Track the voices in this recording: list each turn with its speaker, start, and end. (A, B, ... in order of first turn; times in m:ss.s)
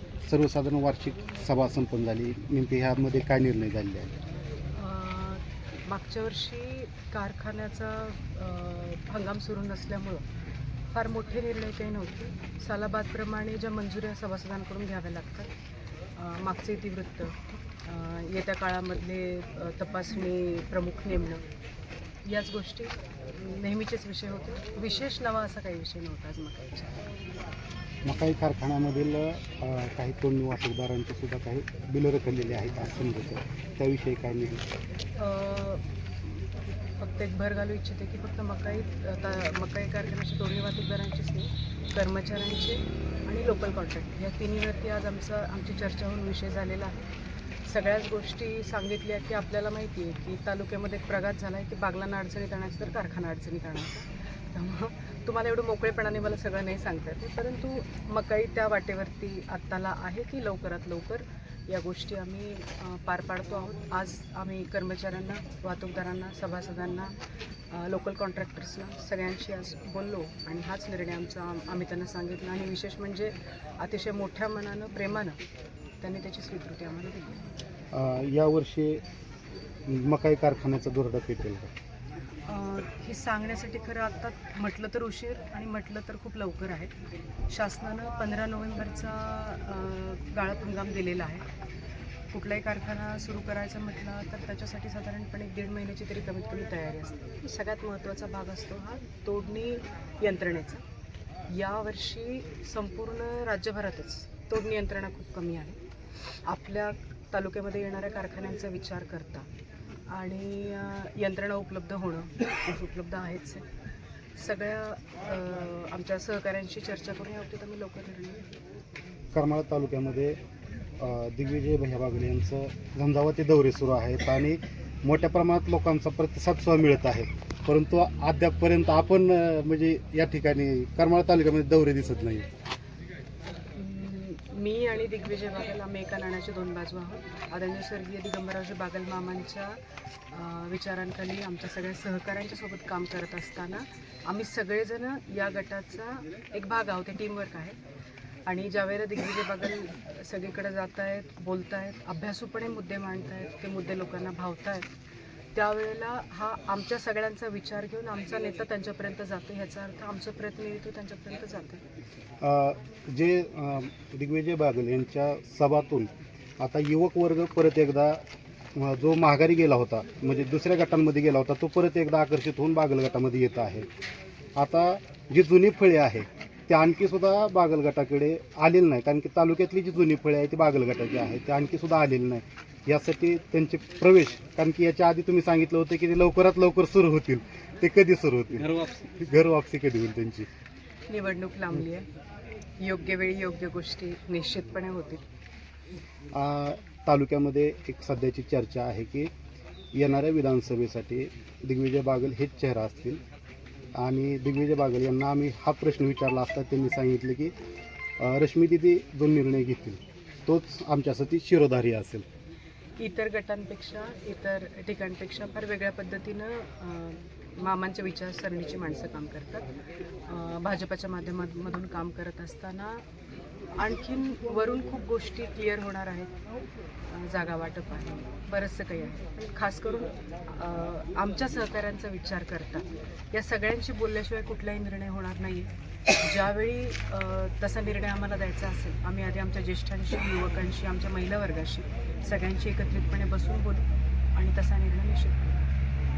0:00.3-0:04.2 A
0:04.8-0:10.2 B
0:10.9-0:15.5 B
0:16.2-0:21.4 B
0:22.2-0:27.0 B
0:28.0-0:34.6 A
0:35.2-0:36.4 B
0:37.0-0:47.0 B
0:47.7-1:07.1 B
1:07.7-1:15.4 B
1:16.0-1:17.4 B
1:17.9-1:19.0 A
1:19.9-1:21.8 A
1:22.4-1:26.9 B
1:27.5-1:31.4 B
1:32.3-1:40.8 B
1:41.5-1:49.5 B
1:50.1-1:53.6 B
1:54.4-1:58.4 B
1:59.3-2:00.4 A
2:01.0-2:12.5 A
2:13.7-2:19.8 B
2:20.3-2:27.8 B
2:28.4-2:34.9 B
2:35.5-2:41.8 B
2:42.4-2:48.2 A
2:48.8-2:53.9 A
2:54.6-3:10.5 A
3:11.1-3:12.1 B
3:12.8-3:15.2 B
3:16.3-3:19.3 A
3:19.9-3:23.2 A
3:24.0-3:27.5 A
3:28.2-3:32.3 A
3:33.0-3:39.7 B
3:40.3-3:43.0 B
3:43.8-3:46.3 B
3:47.1-4:05.6 B